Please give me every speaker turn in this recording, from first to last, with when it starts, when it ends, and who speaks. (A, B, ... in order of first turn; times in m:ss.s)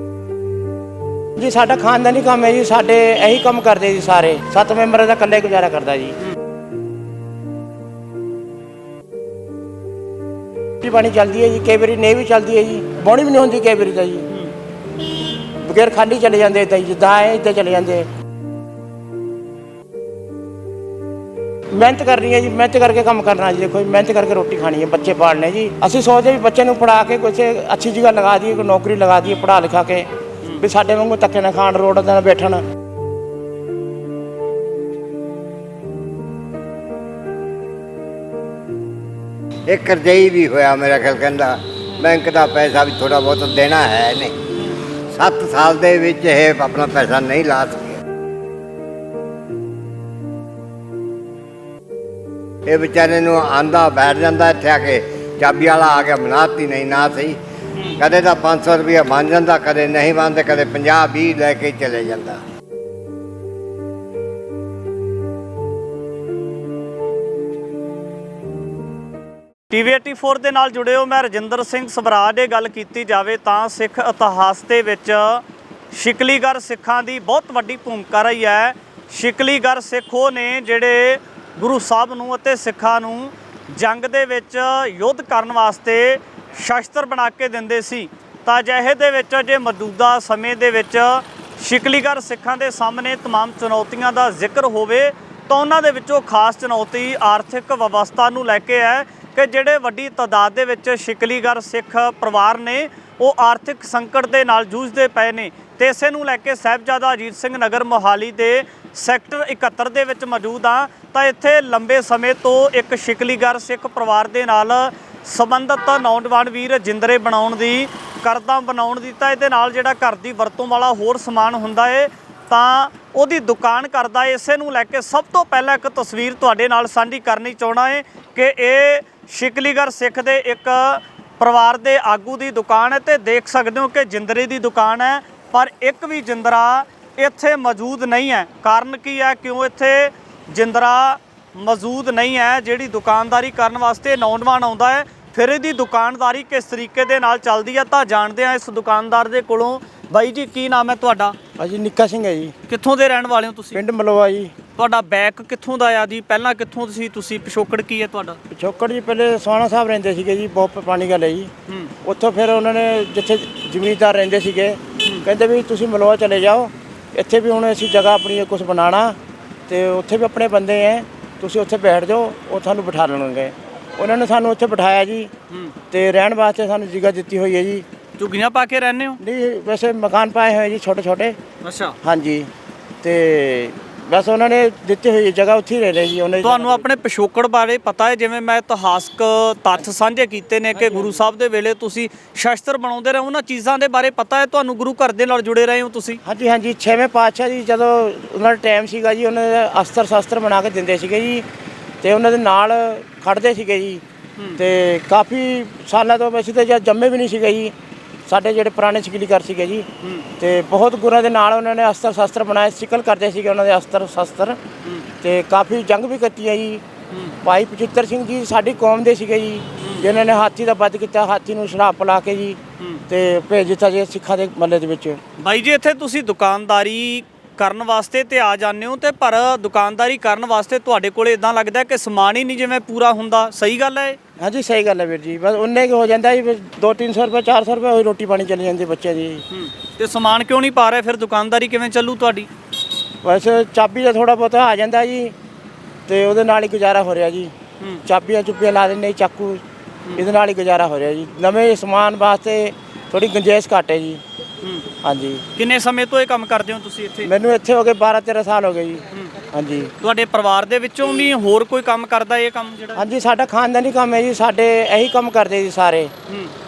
0:01.4-0:06.2 A
0:10.8-0:14.3 A
0:15.6-0:18.1 A
0:21.7-0:32.6 A
0:39.7-0:44.4 B
0:45.1-0:48.0 B
0:52.7-0:57.4 B
0:58.0-1:02.4 B
1:09.7-2:31.4 C
2:31.6-2:32.5 A
2:32.7-2:33.8 C
2:33.7-2:34.6 A
2:34.8-2:38.4 C
2:38.5-2:41.5 A
2:42.0-2:49.2 A
2:49.7-2:55.3 A
2:55.9-2:57.8 A
2:58.2-2:59.2 C
2:59.2-3:01.4 A
3:01.6-3:02.0 C
3:02.0-3:02.5 A
3:03.0-3:06.8 A
3:06.4-3:16.2 C
3:16.2-3:21.4 A
3:22.0-3:24.0 A
3:24.6-3:27.7 A
3:28.3-3:29.9 A
3:30.4-3:34.6 A
3:35.2-3:36.8 A
3:37.4-3:45.2 A
3:45.4-3:54.2 C
3:54.4-3:59.4 A
3:59.5-4:02.5 C
4:03.2-4:05.4 A
4:06.1-4:07.5 A
4:08.0-4:09.6 A
4:10.2-4:14.2 A
4:15.0-4:15.4 A
4:15.6-4:17.3 C
4:17.2-4:19.9 A
4:20.0-4:23.0 C
4:23.0-4:26.1 A